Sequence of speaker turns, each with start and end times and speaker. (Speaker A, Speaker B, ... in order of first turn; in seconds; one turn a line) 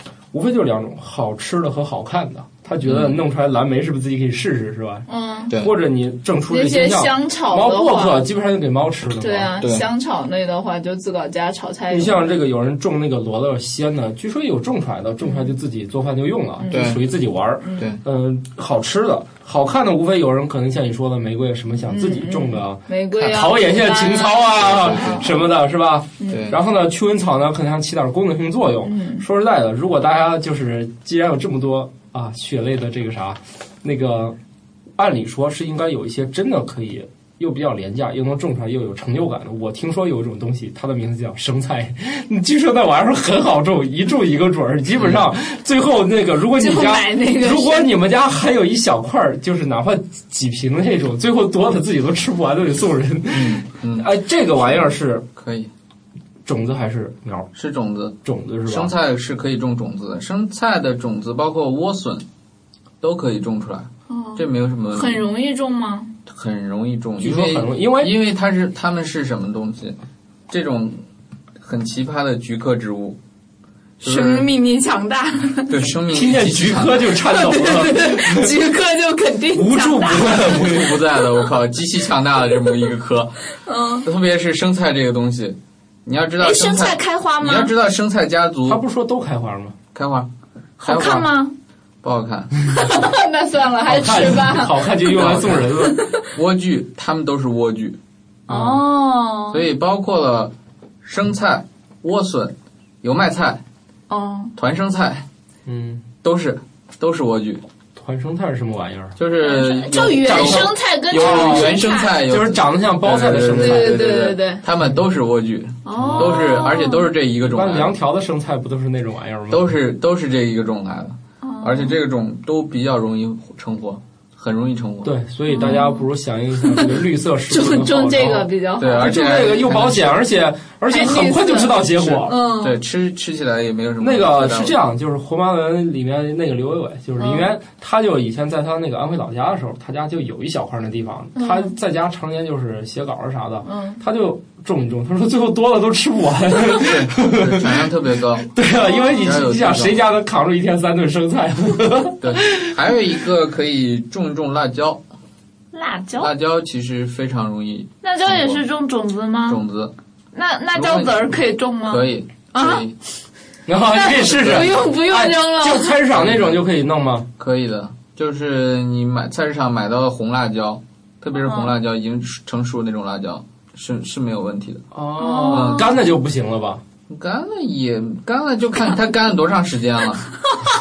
Speaker A: 0.3-9.5
Speaker B: 2.8-3.2
Speaker C: 5.1-5.5
Speaker C: 6.5-8.2
Speaker C: 9.2-12.2
Speaker B: 9.6-9.9
Speaker A: 11.9-34.4
Speaker C: 15.2-15.5
Speaker C: 16.6-17.0
Speaker B: 16.7-17.0
Speaker C: 17.6-17.9
Speaker C: 21.9-25.3
Speaker B: 24.6-25.3
Speaker C: 26.2-26.5
Speaker B: 26.3-26.6
Speaker C: 28.8-29.2
Speaker A: 35.0-55.2
Speaker B: 45.0-45.2
Speaker C: 46.5-47.9
Speaker B: 53.3-54.1
Speaker B: 55.3-55.7
Speaker A: 56.5-57.5
Speaker B: 57.5-62.2
Speaker A: 58.2-58.9
Speaker B: 63.0-65.2
Speaker C: 64.1-66.1
Speaker B: 66.2-70.0
Speaker A: 67.2-68.2
Speaker B: 70.5-71.0
Speaker B: 71.6-73.2
Speaker B: 74.0-74.5
Speaker C: 74.0-75.8
Speaker B: 75.7-77.1
Speaker A: 76.1-78.5
Speaker C: 77.1-80.8
Speaker A: 79.5-80.9
Speaker B: 80.1-83.4
Speaker C: 83.6-84.1
Speaker B: 84.0-88.8
Speaker C: 86.4-87.7
Speaker A: 88.7-89.8
Speaker B: 89.9-91.3
Speaker C: 90.8-91.5
Speaker B: 92.0-92.5
Speaker C: 92.7-96.2
Speaker A: 93.9-96.0
Speaker B: 95.1-98.0
Speaker C: 98.5-99.7
Speaker A: 98.5-98.8
Speaker B: 99.5-103.6
Speaker C: 104.1-104.5
Speaker B: 104.6-105.3
Speaker A: 105.7-106.0
Speaker B: 106.2-107.6
Speaker A: 107.9-109.1
Speaker B: 109.2-117.9
Speaker C: 109.4-112.2
Speaker A: 110.2-114.0
Speaker C: 113.5-114.6
Speaker C: 115.8-117.1
Speaker A: 115.9-116.5
Speaker A: 117.4-119.7
Speaker B: 119.5-125.1
Speaker C: 121.4-121.9
Speaker A: 125.0-132.3
Speaker C: 125.5-126.0
Speaker C: 127.5-129.2
Speaker B: 128.8-130.2
Speaker C: 130.9-132.8
Speaker B: 132.4-134.8
Speaker A: 134.0-147.8
Speaker C: 137.2-137.5
Speaker C: 141.3-141.7
Speaker C: 143.6-144.0
Speaker B: 146.6-148.5
Speaker A: 148.4-152.7
Speaker C: 148.8-149.3
Speaker B: 149.2-150.0
Speaker B: 152.2-155.0
Speaker C: 155.7-156.3
Speaker B: 156.2-158.6
Speaker C: 158.0-159.6
Speaker B: 159.5-159.9
Speaker C: 160.3-162.9
Speaker B: 160.7-161.3
Speaker B: 161.8-162.9
Speaker A: 163.7-167.3
Speaker C: 163.9-166.0
Speaker B: 164.1-164.8
Speaker B: 166.1-166.6
Speaker B: 167.4-174.8
Speaker C: 171.4-171.7
Speaker A: 174.9-176.8
Speaker C: 175.2-175.9
Speaker B: 175.5-175.9
Speaker B: 177.1-180.4